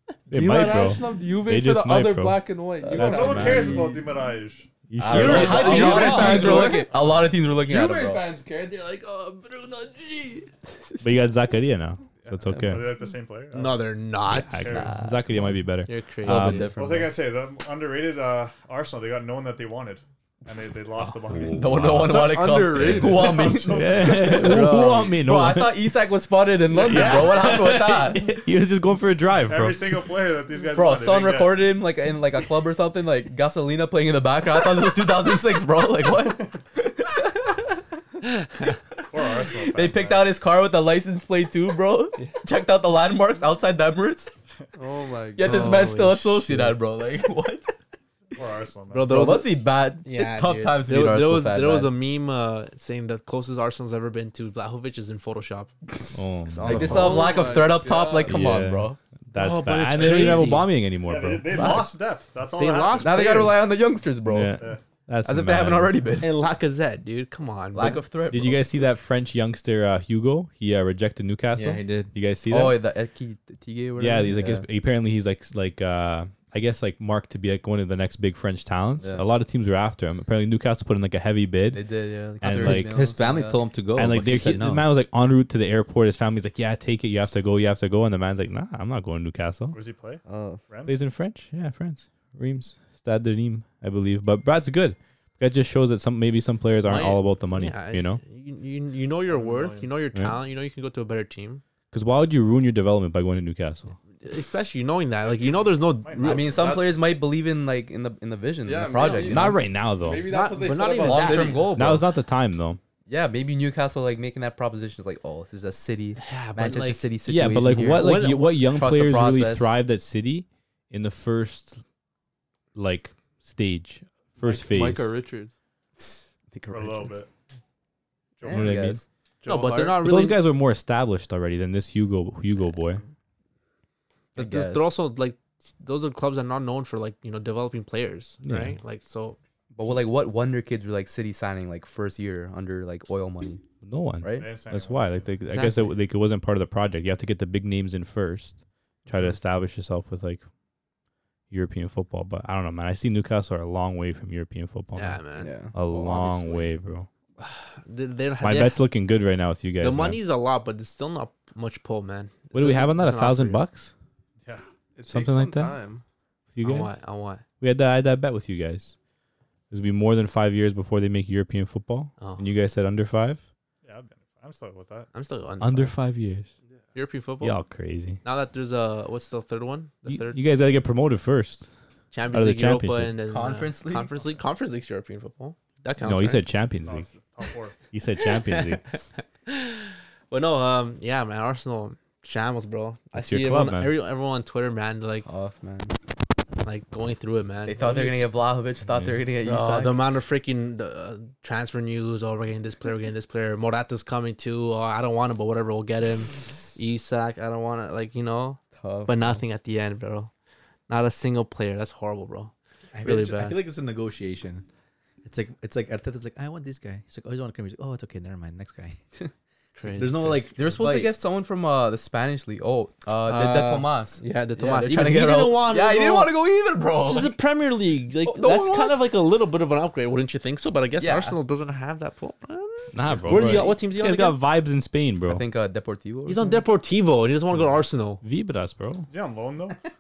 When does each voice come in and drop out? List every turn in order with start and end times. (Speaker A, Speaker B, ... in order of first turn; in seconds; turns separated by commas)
Speaker A: 0.3-3.9, Speaker B: 0.3-4.0, Speaker C: 2.9-3.6, Speaker D: 3.0-4.8, Speaker A: 4.9-6.8, Speaker C: 5.0-8.3, Speaker B: 5.1-10.5, Speaker E: 5.1-6.8, Speaker D: 5.3-5.6, Speaker D: 6.9-7.3, Speaker A: 11.0-13.0, Speaker D: 12.2-13.9, Speaker C: 12.5-12.8, Speaker E: 13.5-14.6, Speaker A: 14.3-16.8, Speaker D: 14.5-15.2, Speaker C: 14.7-15.5, Speaker E: 15.9-16.7, Speaker C: 16.2-17.1, Speaker D: 16.7-21.8, Speaker A: 21.3-22.2, Speaker C: 21.4-28.4, Speaker B: 21.9-23.6, Speaker A: 22.8-23.1, Speaker D: 22.9-24.7, Speaker A: 23.6-25.9, Speaker A: 26.7-29.9, Speaker D: 26.8-27.6, Speaker D: 29.4-31.7, Speaker C: 30.7-37.8, Speaker D: 39.1-40.4, Speaker C: 39.5-44.3, Speaker B: 44.8-45.9, Speaker C: 45.4-47.7, Speaker E: 45.4-46.8, Speaker D: 48.4-49.2, Speaker E: 48.9-55.8, Speaker C: 49.1-51.9, Speaker A: 56.1-57.1, Speaker E: 56.4-57.5, Speaker C: 56.6-59.0, Speaker B: 56.8-58.5, Speaker A: 58.2-61.7, Speaker E: 59.3-60.7, Speaker D: 60.0-63.6, Speaker C: 61.5-61.9, Speaker E: 62.6-63.5, Speaker C: 63.0-64.6, Speaker A: 64.2-66.0, Speaker D: 64.6-64.8, Speaker C: 65.2-66.3, Speaker E: 66.2-68.0, Speaker C: 67.7-68.7, Speaker A: 68.3-72.8, Speaker F: 71.5-72.2, Speaker C: 72.5-74.7, Speaker A: 74.0-81.8, Speaker C: 81.7-83.7, Speaker A: 82.4-83.1, Speaker F: 82.5-84.9, Speaker A: 83.9-89.8, Speaker D: 89.7-91.1, Speaker C: 90.3-90.6, Speaker A: 90.9-98.2, Speaker E: 96.8-101.6, Speaker D: 99.3-100.0, Speaker A: 101.9-104.0, Speaker E: 104.2-106.5, Speaker D: 105.2-106.7, Speaker C: 106.2-109.6, Speaker B: 106.5-107.0, Speaker B: 108.6-111.7, Speaker E: 109.0-109.4, Speaker A: 109.2-110.3, Speaker E: 110.2-111.7, Speaker C: 111.0-112.1, Speaker A: 111.7-112.8, Speaker C: 113.1-119.7, Speaker E: 116.2-117.0, Speaker A: 117.2-121.8, Speaker E: 117.8-118.5, Speaker A: 122.8-125.1, Speaker B: 124.4-125.5, Speaker C: 126.0-127.2, Speaker D: 126.7-127.3, Speaker D: 128.4-128.9, Speaker C: 128.4-129.0, Speaker A: 128.5-129.0, Speaker B: 129.4-130.1, Speaker E: 129.4-130.4, Speaker A: 129.9-133.0, Speaker C: 134.3-134.9, Speaker E: 134.4-139.4, Speaker A: 138.4-138.8, Speaker C: 139.7-143.7, Speaker A: 143.8-150.4, Speaker C: 144.2-144.5, Speaker D: 144.3-145.3, Speaker E: 145.5-145.9, Speaker A: 151.5-157.1, Speaker E: 154.9-155.5, Speaker C: 155.4-156.6, Speaker E: 157.4-158.8, Speaker A: 158.4-160.2, Speaker E: 159.8-163.6, Speaker A: 162.5-163.9, Speaker B: 165.0-166.0, Speaker A: 165.1-165.8, Speaker A: 166.5-167.0, Speaker E: 166.6-167.4, Speaker A: 167.6-168.9, Speaker A: 169.7-173.4, Speaker E: 172.2-172.5, Speaker D: 173.8-175.1, Speaker E: 175.1-176.0, Speaker A: 175.6-176.5, Speaker E: 176.9-177.6, Speaker A: 177.4-178.2, Speaker E: 178.2-180.4, Speaker A: 180.1-181.7, Speaker E: 182.1-186.5, Speaker A: 182.3-183.2, Speaker C: 183.3-184.1, Speaker A: 186.0-187.1, Speaker D: 186.8-187.9, Speaker A: 187.9-188.9, Speaker E: 189.5-195.3, Speaker A: 193.2-193.9, Speaker C: 195.2-195.9, Speaker E: 196.6-198.3, Speaker C: 197.7-200.1, Speaker A: 198.9-199.1, Speaker E: 199.4-210.3, Speaker C: 208.8-209.4, Speaker E: 210.9-213.6, Speaker F: 212.9-214.7, Speaker F: 215.2-219.0, Speaker E: 219.8-220.5, Speaker F: 219.9-221.2, Speaker C: 220.5-227.3, Speaker E: 223.2-226.4, Speaker E: 227.1-234.4, Speaker C: 228.2-229.1, Speaker C: 231.0-231.4, Speaker A: 232.9-235.4, Speaker C: 235.3-236.6, Speaker E: 236.3-238.2, Speaker A: 238.2-239.1, Speaker D: 239.1-239.8